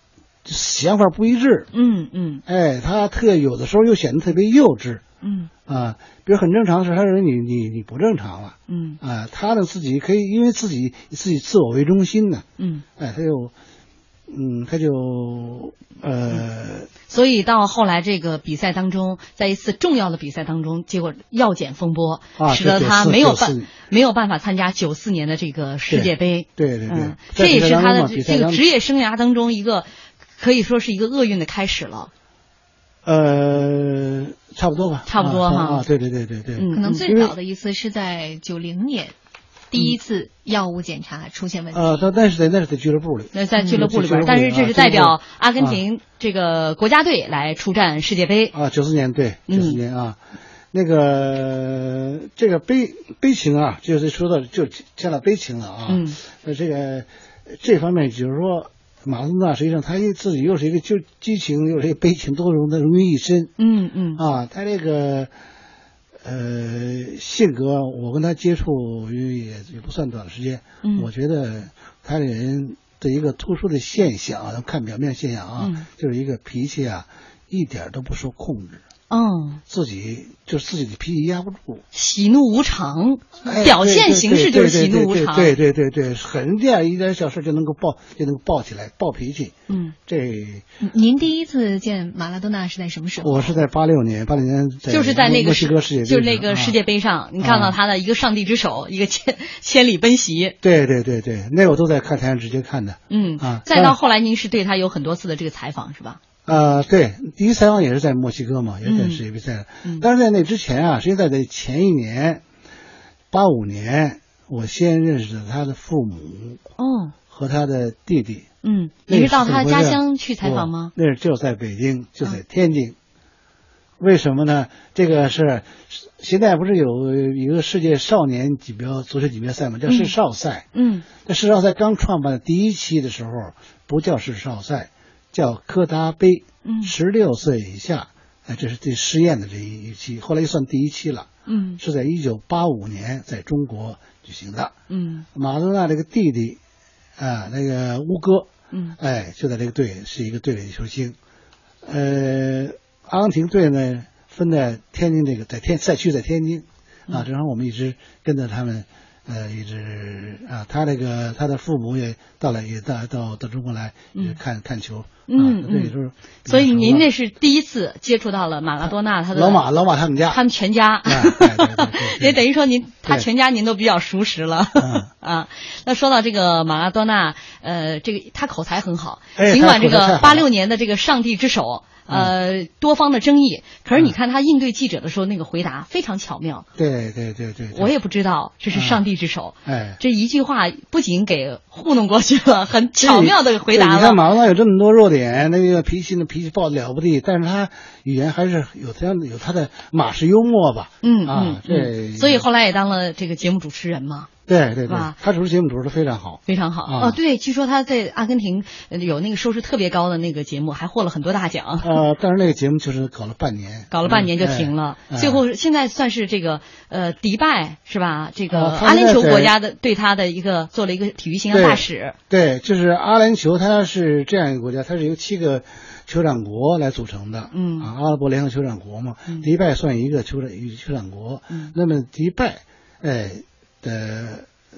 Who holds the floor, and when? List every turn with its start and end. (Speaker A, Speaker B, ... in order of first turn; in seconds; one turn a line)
Speaker A: 0.4-1.7
Speaker B: 1.7-2.4
Speaker A: 2.5-5.0
Speaker B: 5.2-5.5
Speaker A: 5.7-12.4
Speaker B: 8.7-9.0
Speaker B: 12.6-12.8
Speaker A: 13.0-13.5
Speaker A: 14.3-16.9
Speaker B: 17.1-29.9
Speaker A: 22.4-23.7
Speaker A: 25.9-28.6
Speaker B: 30.4-32.1
Speaker A: 33.0-37.3
Speaker B: 35.1-35.8
Speaker B: 36.5-37.0
Speaker C: 36.7-39.1
Speaker C: 39.7-42.1
Speaker A: 41.7-45.8
Speaker B: 43.3-48.5
Speaker A: 48.5-50.2
Speaker B: 49.5-49.8
Speaker A: 50.7-63.5
Speaker B: 55.9-56.2
Speaker B: 63.6-64.2
Speaker A: 64.2-65.3
Speaker A: 66.2-78.8
Speaker B: 70.8-71.1
Speaker B: 75.6-75.8
Speaker B: 79.1-79.6
Speaker A: 79.7-81.8
Speaker B: 81.9-85.5
Speaker A: 83.4-89.5
Speaker B: 89.7-89.9
Speaker A: 90.1-90.7
Speaker C: 90.8-93.6
Speaker A: 93.2-96.7
Speaker B: 94.9-100.5
Speaker A: 97.4-97.8
Speaker A: 100.6-104.0
Speaker B: 103.1-106.2
Speaker A: 106.5-112.4
Speaker B: 108.8-109.2
Speaker A: 113.3-116.6
Speaker B: 116.8-117.1
Speaker A: 117.3-118.5
Speaker B: 118.6-120.9
Speaker A: 119.1-122.9
Speaker A: 124.0-130.7
Speaker B: 129.9-130.1
Speaker B: 130.7-131.0
Speaker A: 131.2-144.7
Speaker B: 136.6-136.9
Speaker B: 141.5-141.8
Speaker B: 144.9-145.2
Speaker A: 145.3-146.6
Speaker A: 147.2-151.2
Speaker B: 148.7-148.9
Speaker A: 151.8-167.1
Speaker B: 165.3-165.9
Speaker B: 166.4-169.6
Speaker A: 168.8-170.4
Speaker B: 170.3-186.7
Speaker A: 171.1-172.4
Speaker A: 174.8-175.1
Speaker A: 179.3-180.4
Speaker A: 186.8-187.9
Speaker B: 187.7-194.2
Speaker A: 188.7-189.0
Speaker A: 189.7-190.0
Speaker A: 193.0-202.4
Speaker B: 201.0-204.3
Speaker A: 204.5-207.2
Speaker B: 204.9-205.2
Speaker B: 206.5-211.9
Speaker A: 211.8-215.4
Speaker B: 213.9-222.2
Speaker A: 218.5-219.5
Speaker A: 221.5-234.5
Speaker B: 227.5-227.9